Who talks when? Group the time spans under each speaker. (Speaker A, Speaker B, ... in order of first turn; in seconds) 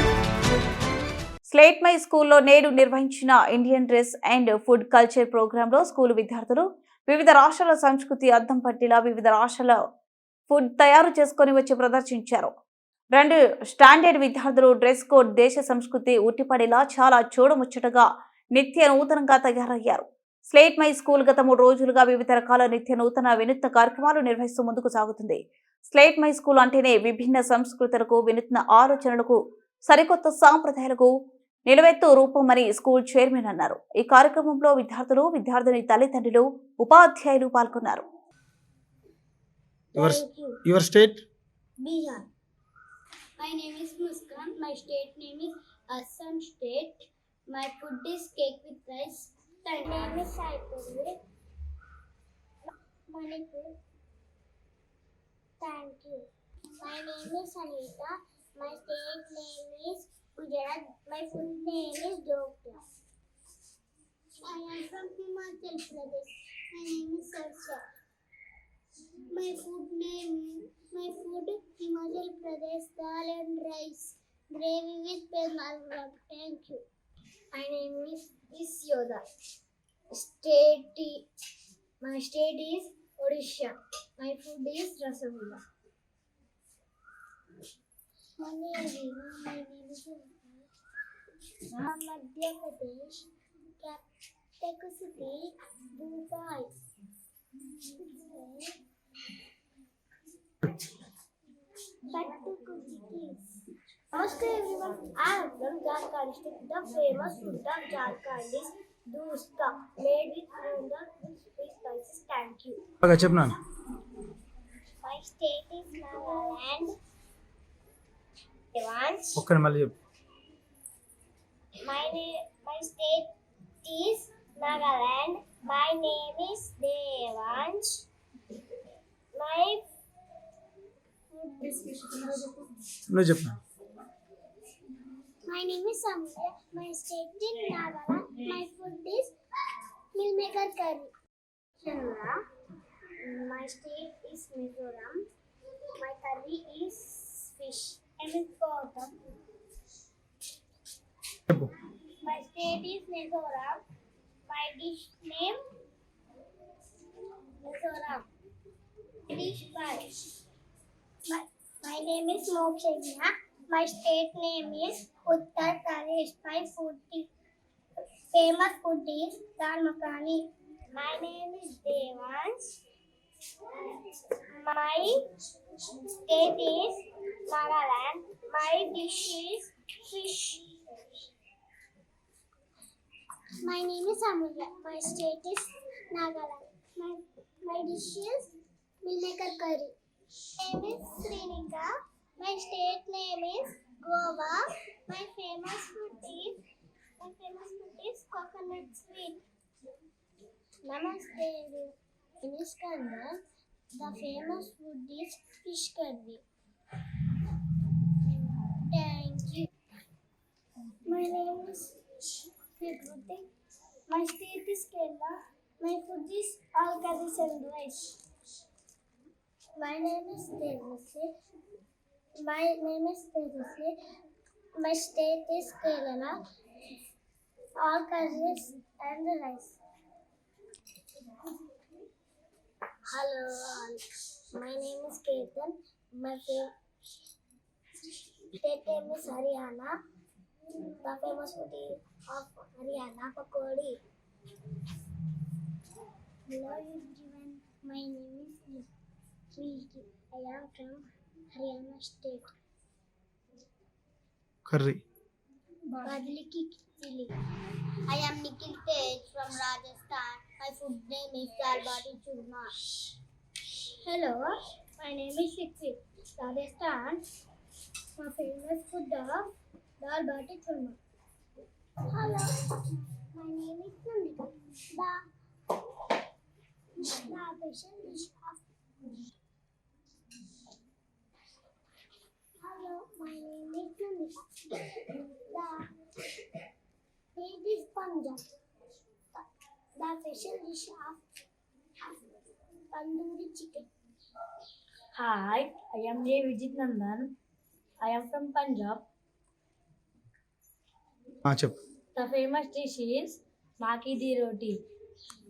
Speaker A: 1.5-9.8, 10.5-12.5, 13.1-31.1, 31.6-38.0
Speaker B: 40.0-40.6, 41.8-42.2, 43.4-47.0, 47.5-51.1, 53.1-53.7, 55.6-56.2, 56.8-62.8, 64.5-67.8, 69.3-76.8, 77.5-79.2, 80.1-81.2, 82.0-85.6, 88.4-90.7, 91.8-93.2, 93.8-94.0, 94.6-96.7, 98.0-98.7, 102.1-103.4, 104.1-112.8, 115.0-116.9, 118.7-119.4, 121.8-123.3, 123.8-128.0, 129.3-129.8, 131.3-132.6, 135.5-139.3, 140.1-141.1, 141.8-142.3, 143.2-145.2, 146.0-149.1, 152.2-153.8, 154.5-155.6, 157.6-158.2, 159.3-160.0, 161.3-167.3, 168.3-172.7, 174.6-175.1, 176.0-180.6, 183.6-188.5, 189.0-189.9, 190.6-196.6, 197.2-199.4, 200.8-203.4, 204.0-206.4, 208.7-209.7, 211.1-211.9, 212.8-213.5, 214.1-218.1, 219.8-221.3, 222.4-223.9, 224.8-226.4, 227.8-229.8, 233.1-234.0, 234.5-236.7, 238.6-239.9, 241.0-244.0, 246.5-248.9, 249.5-251.0, 251.5-252.5, 256.0-257.3, 258.1-262.7, 264.0-264.4, 265.0-267.2, 268.2-269.5, 270.0-271.0, 272.1-275.2, 277.0-278.6, 282.6-284.8, 285.5-285.9, 287.4-288.4, 290.0-291.2, 292.9-293.9
Speaker C: 40.0-41.2, 113.0-113.5, 119.4-120.0, 133.1-133.6, 254.7-255.0, 301.4-301.8
Speaker D: 295.1-297.3, 298.0-299.0, 302.1-304.8